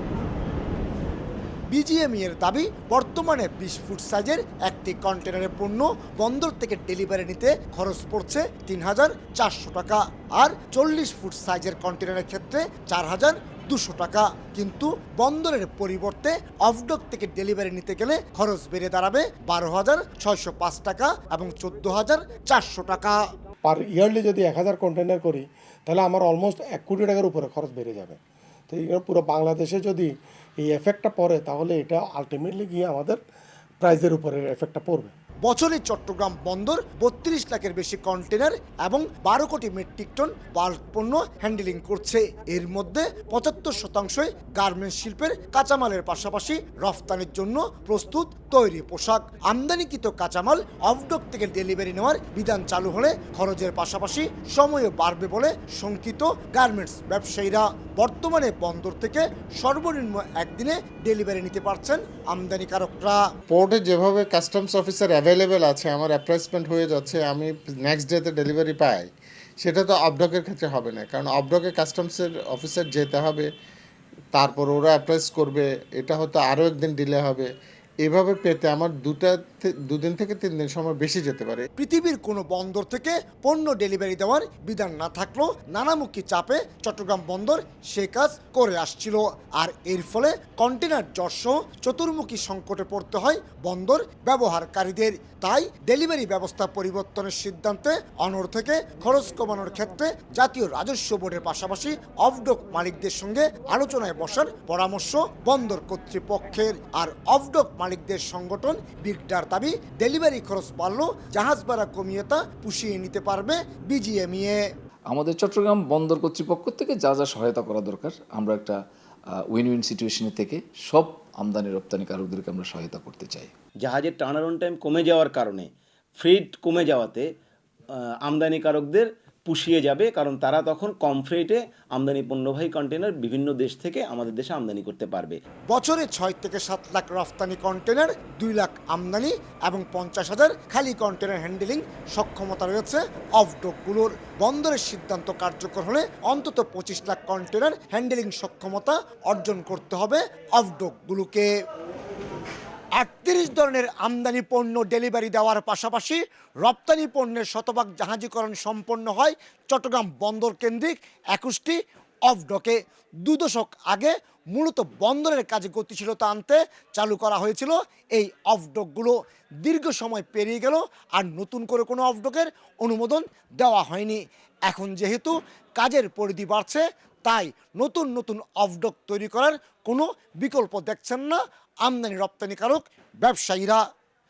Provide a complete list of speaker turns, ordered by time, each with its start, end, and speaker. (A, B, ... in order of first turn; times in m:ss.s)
0:01.7-0:23.2 A
0:23.6-0:28.2 B
0:28.7-0:33.2 B
0:33.8-0:35.1 B
0:35.4-1:03.2 A
1:03.5-1:09.1 C
1:09.6-1:13.5 C
1:14.3-1:17.5 C
1:18.0-1:21.6 C
1:21.8-1:54.6 A
1:55.1-1:58.8 D
1:59.5-2:03.5 D
2:03.8-2:05.7 E
2:06.2-2:07.2 E
2:08.2-2:15.4 E
2:15.7-2:31.5 A
2:33.0-3:03.8 A